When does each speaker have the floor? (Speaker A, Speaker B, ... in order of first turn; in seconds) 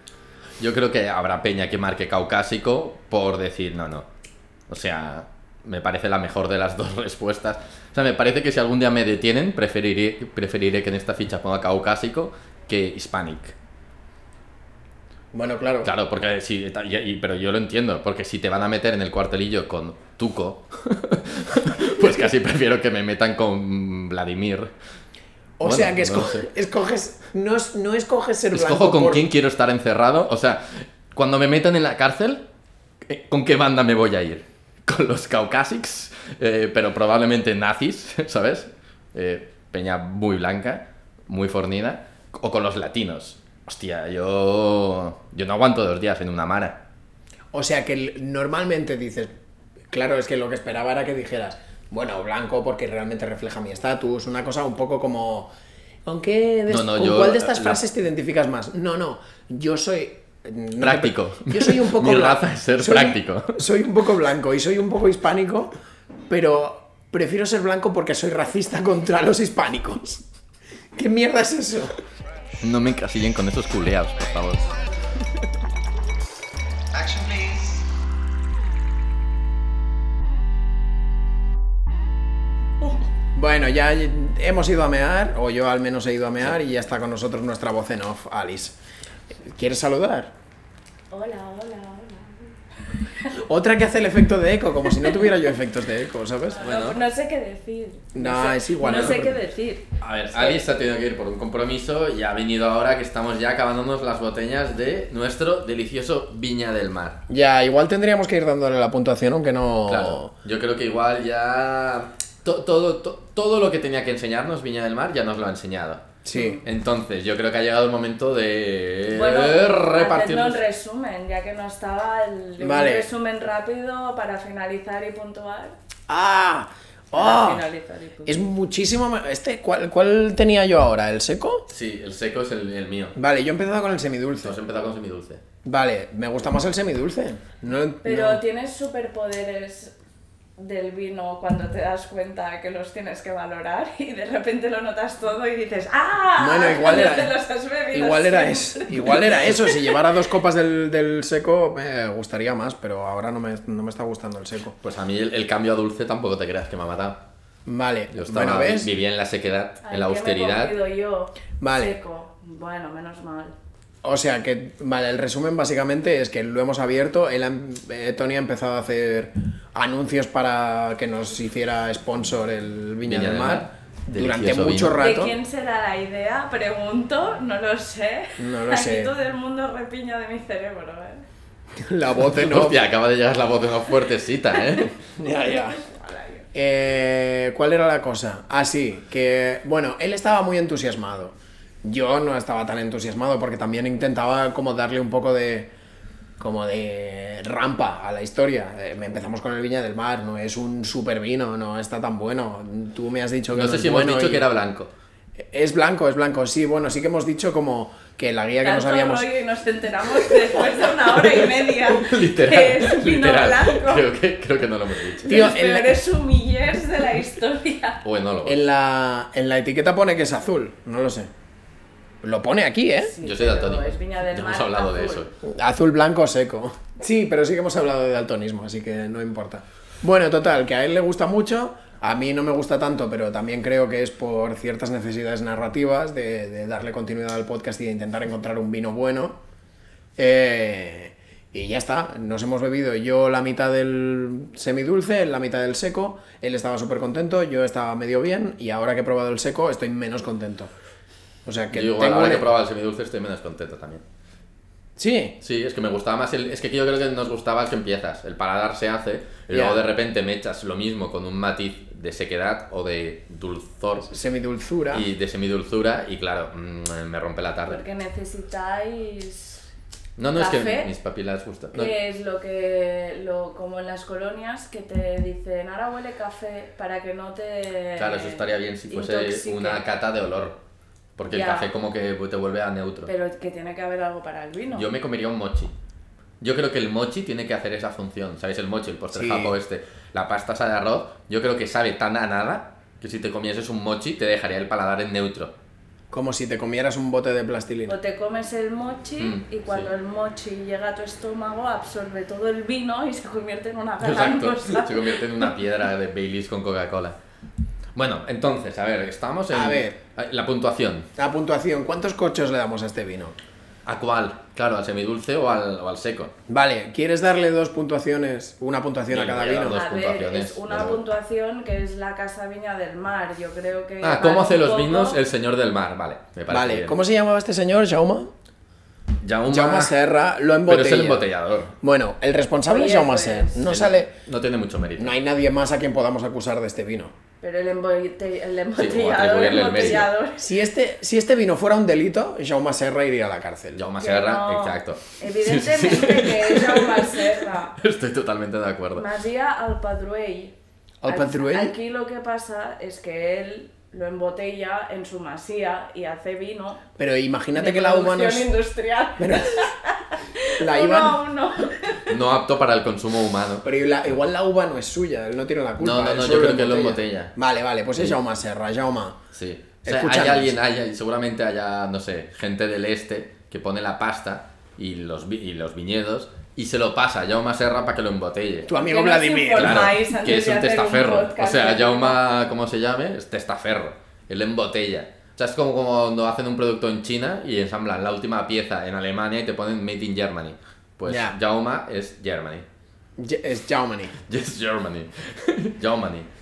Speaker A: 0.6-4.0, 4.7-13.6, 15.8-24.7, 25.6-26.5, 28.5-32.4, 33.0-46.8, 56.7-57.8, 60.8-63.6, 72.6-74.7, 96.6-97.0, 100.0-107.2, 109.9-116.0, 116.6-120.6, 131.7-133.2, 134.4-135.4, 154.8-157.2, 158.1-160.7, 173.0-175.0, 182.3-184.9, 203.5-204.9, 211.8-215.4, 218.0-218.6, 223.2-225.3, 251.7-254.0, 255.4-264.1, 264.9-267.8, 270.2-271.9, 278.0-280.6, 281.2-283.1, 284.7-285.7, 286.4-295.5, 299.2-299.9, 304.0-307.1, 307.9-311.1, 313.9-316.3, 319.1-321.0, 324.0-327.0, 329.2-329.9, 330.6-331.7, 333.7-335.1, 338.7-340.1, 343.8-349.1, 362.1-363.6, 365.8-367.3, 369.3-378.7, 379.5-392.6, 394.2-396.3
Speaker B: 15.3-15.9, 25.6-29.2, 47.5-49.3, 49.9-55.5, 56.0-65.7, 66.3-70.2, 70.9-72.0, 76.9-77.8, 83.3-88.7, 89.4-90.3, 93.3-96.6, 98.1-99.4, 107.3-110.3, 116.2-116.6, 122.6-123.1, 126.1-127.6, 128.2-131.7, 133.2-134.6, 135.6-138.4, 146.4-147.3, 147.9-154.8, 157.7-158.9, 161.6-162.0, 164.0-175.3, 178.4-179.1, 181.8-182.8, 185.2-185.8, 186.5-195.7, 196.4-204.4, 205.5-209.3, 215.2-216.0, 218.4-221.3, 222.2-223.1, 225.4-239.4, 240.2-250.7, 251.4-252.5, 255.0-255.4, 259.5-259.8, 264.1-265.1, 289.1-289.6, 296.1-298.0, 309.5-310.0, 311.1-313.4, 316.5-319.8, 326.5-328.3, 329.5-331.3, 331.8-334.1, 335.0-337.1, 340.4-343.8, 351.0-351.8, 357.0-358.5, 359.2-359.7, 360.6-361.2, 363.6-369.2, 369.8-370.5, 378.7-379.9, 391.1-391.4, 393.2-394.1
Speaker C: 91.1-93.4, 95.0-95.3, 96.5-100.6, 116.3-116.6, 119.1-125.7, 127.1-128.5, 138.0-139.9, 140.6-150.0, 159.8-163.5, 175.0-181.2, 185.9-186.4, 208.6-214.1, 215.2-218.0, 223.0-225.3, 267.7-269.6, 270.3-270.9, 271.7-279.8, 281.3-281.7, 283.0-284.9, 297.9-305.5, 319.6-325.2, 332.7-333.8, 337.4-340.5, 344.0-347.8, 348.9-350.5, 351.1-356.8, 357.5-362.1, 378.7-382.2